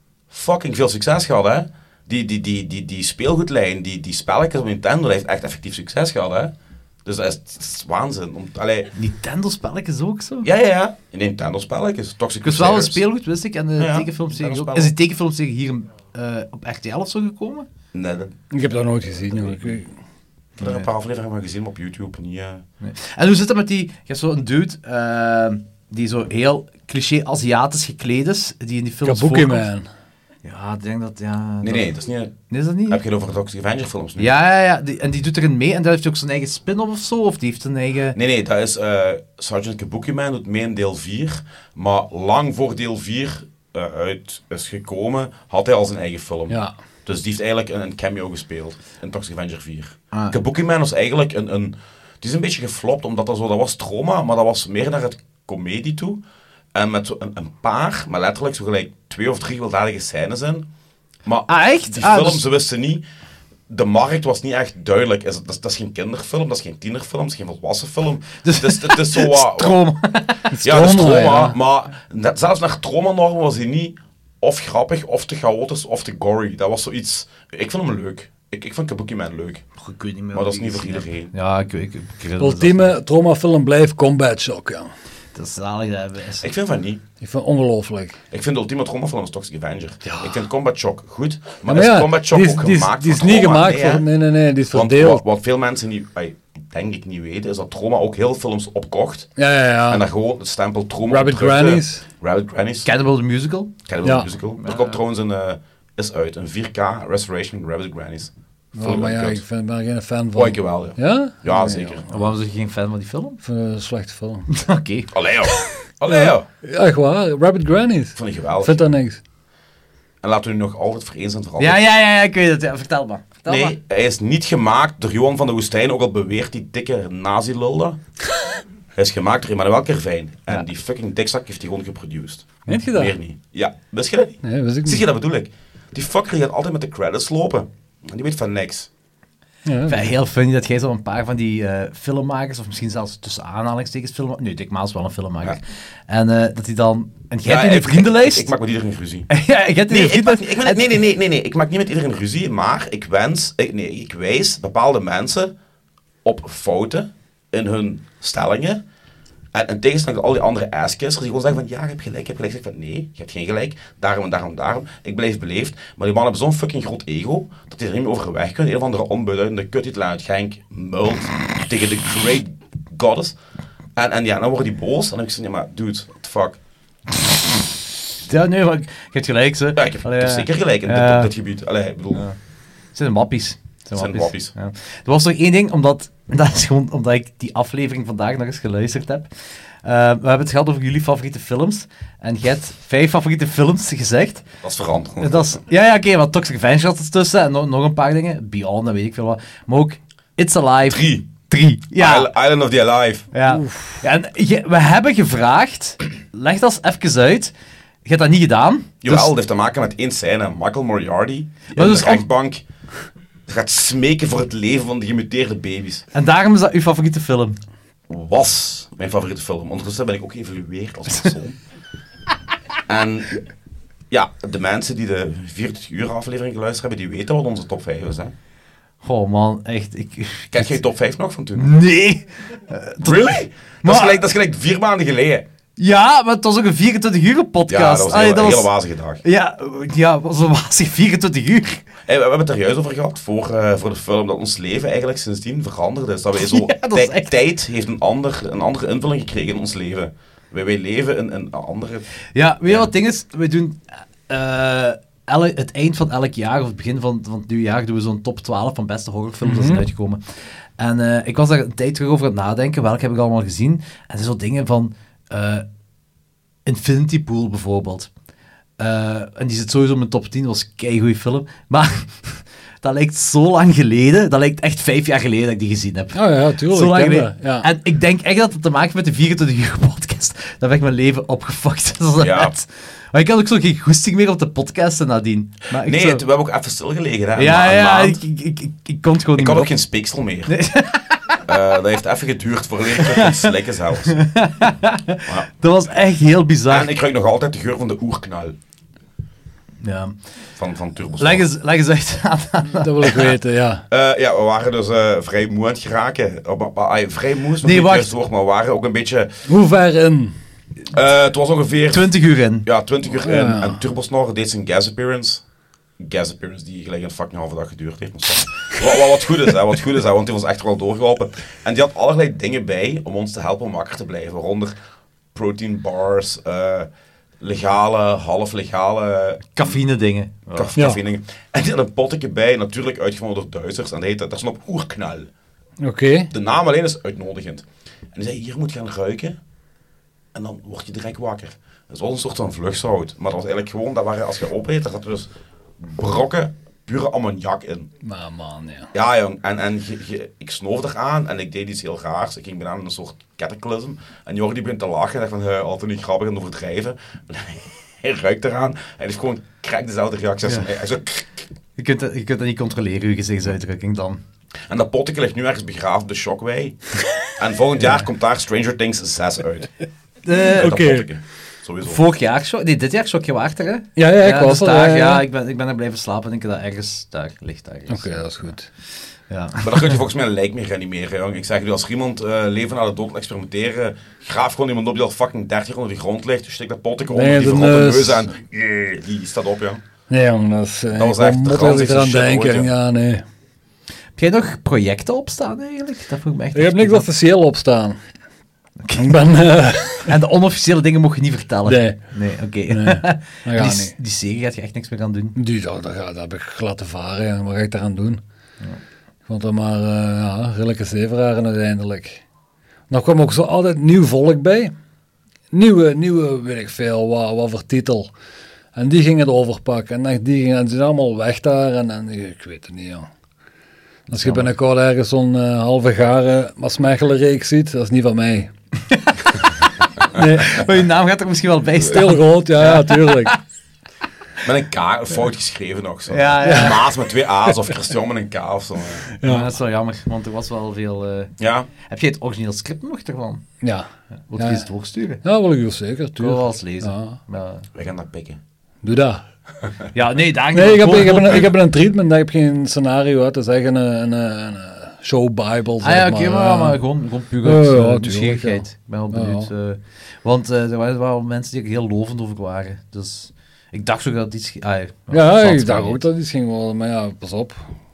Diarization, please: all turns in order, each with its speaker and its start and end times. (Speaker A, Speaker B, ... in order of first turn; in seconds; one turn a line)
Speaker A: 0.3-6.5
Speaker A: 7.0-8.9
Speaker B: 8.9-10.5
Speaker A: 10.4-13.0
Speaker B: 12.4-17.7
Speaker A: 13.8-14.9
Speaker A: 17.9-18.4
Speaker C: 18.5-19.9
Speaker A: 19.3-19.8
Speaker A: 20.6-22.6
Speaker B: 20.6-20.9
Speaker B: 22.8-29.7
Speaker C: 29.0-29.9
Speaker B: 30.4-31.9
Speaker A: 31.6-32.4
Speaker B: 32.5-33.0
Speaker A: 32.9-34.3
Speaker B: 34.2-38.2
Speaker A: 38.1-56.2
Speaker B: 50.1-50.4
Speaker A: 56.7-60.7
Speaker A: 61.2-63.0
Speaker B: 61.5-62.5
Speaker A: 63.7-69.8
Speaker B: 68.4-70.6
Speaker C: 70.5-71.5
Speaker A: 70.6-79.7
Speaker B: 79.8-82.9
Speaker A: 80.3-81.3
Speaker C: 82.4-84.9
Speaker B: 85.3-86.5
Speaker A: 86.4-87.0
Speaker C: 87.2-88.2
Speaker A: 88.3-94.1
Speaker C: 91.7-95.2
Speaker A: 94.7-99.3
Speaker C: 99.4-100.0
Speaker A: 99.9-102.9
Speaker C: 101.1-102.0
Speaker B: 102.8-103.7
Speaker A: 103.8-109.4
Speaker B: 104.6-105.0
Speaker C: 108.8-112.1
Speaker A: 110.3-112.0
Speaker B: 112.1-113.4
Speaker C: 113.4-114.5
Speaker B: 114.5-115.1
Speaker A: 115.1-116.5
Speaker C: 116.1-119.2
Speaker A: 118.2-118.9
Speaker A: 120.2-121.8
Speaker B: 121.6-123.8
Speaker A: 123.5-128.0
Speaker A: 129.0-138.9
Speaker C: 132.7-133.2
Speaker C: 134.4-135.0
Speaker C: 139.7-140.1
Speaker B: 139.9-148.5
Speaker A: 147.4-149.3
Speaker B: 149.3-151.0
Speaker A: 149.9-155.5
Speaker A: 156.2-158.8
Speaker A: 159.5-173.4
Speaker A: 174.0-176.6
Speaker B: 178.2-181.3
Speaker A: 179.8-182.2
Speaker B: 182.9-189.3
Speaker A: 183.9-184.5
Speaker B: 189.8-194.4
Speaker A: 194.6-195.6
Speaker B: 195.2-202.3
Speaker A: 200.8-201.3
Speaker A: 201.9-203.3
Speaker B: 203.3-207.5
Speaker C: 203.5-204.0
Speaker B: 208.1-209.3
Speaker A: 209.0-212.7
Speaker B: 211.7-212.2
Speaker A: 213.5-216.1
Speaker B: 216.1-217.6
Speaker A: 218.1-221.6
Speaker A: 222.9-223.4
Speaker A: 224.1-228.3
Speaker B: 229.0-230.8
Speaker A: 230.5-231.8
Speaker B: 231.6-234.2
Speaker A: 233.0-235.5
Speaker B: 235.8-238.7
Speaker A: 237.7-239.2
Speaker B: 239.2-241.9
Speaker A: 242.1-252.1
Speaker B: 246.4-247.3
Speaker B: 252.3-260.2
Speaker C: 259.4-259.9
Speaker B: 260.8-265.6
Speaker B: 266.7-268.1
Speaker B: 268.8-286.2
Speaker C: 276.1-277.7
Speaker A: 282.2-282.5
Speaker A: 285.8-288.2
Speaker B: 287.4-289.8
Speaker A: 289.4-290.5
Speaker B: 290.5-291.4
Speaker A: 291.4-294.2
Speaker B: 292.9-293.5
Speaker B: 294.1-296.9
Speaker A: 296.7-298.6
Speaker B: 299.8-300.2
Speaker A: 300.6-301.5
Speaker B: 301.2-303.4
Speaker C: 302.7-303.8
Speaker A: 303.9-309.3
Speaker B: 307.6-308.1
Speaker C: 309.5-310.4
Speaker A: 310.9-312.1
Speaker B: 311.9-312.7
Speaker A: 312.6-315.4
Speaker C: 313.2-313.8
Speaker A: 316.0-324.7
Speaker A: 325.3-326.9
Speaker A: 327.4-329.8
Speaker B: 329.6-330.7
Speaker A: 330.5-335.3
Speaker C: 335.8-336.3
Speaker A: 336.3-339.4
Speaker A: 340.3-347.9
Speaker C: 348.0-348.9
Speaker A: 348.9-361.3
Speaker B: 361.8-364.2
Speaker A: 364.7-369.7
Speaker B: 370.2-370.8
Speaker C: 370.5-371.1
Speaker A: 370.6-372.0
Speaker B: 371.8-378.5
Speaker C: 374.0-375.2
Speaker C: 377.9-378.7
Speaker B: 379.3-380.0
Speaker A: 379.6-389.8
Speaker C: 387.1-388.3
Speaker C: 390.1-393.2
Speaker A: 390.9-392.7
Speaker B: 394.2-397.1
Speaker C: 396.6-398.0
Speaker B: 398.8-399.3
Speaker C: 399.0-400.1
Speaker B: 400.1-405.4
Speaker C: 401.6-402.0
Speaker C: 402.7-403.9
Speaker C: 405.4-408.2
Speaker C: 409.3-412.2
Speaker C: 412.9-414.7
Speaker C: 415.5-418.1
Speaker C: 418.8-423.1
Speaker B: 424.1-424.5
Speaker C: 424.1-428.5
Speaker B: 428.9-429.4
Speaker C: 430.1-430.7
Speaker B: 430.1-433.4
Speaker C: 431.8-433.4
Speaker A: 434.4-439.1
Speaker B: 436.1-436.9
Speaker C: 436.4-436.8
Speaker C: 439.1-439.5
Speaker B: 439.2-443.4
Speaker A: 441.4-441.7
Speaker C: 443.6-443.9
Speaker B: 444.3-445.2
Speaker C: 444.4-444.7
Speaker C: 445.2-447.2
Speaker B: 446.2-447.7
Speaker A: 447.7-448.4
Speaker C: 448.8-449.2
Speaker B: 449.9-451.5
Speaker C: 450.5-456.8
Speaker B: 455.8-466.0
Speaker C: 457.4-459.5
Speaker C: 465.1-467.6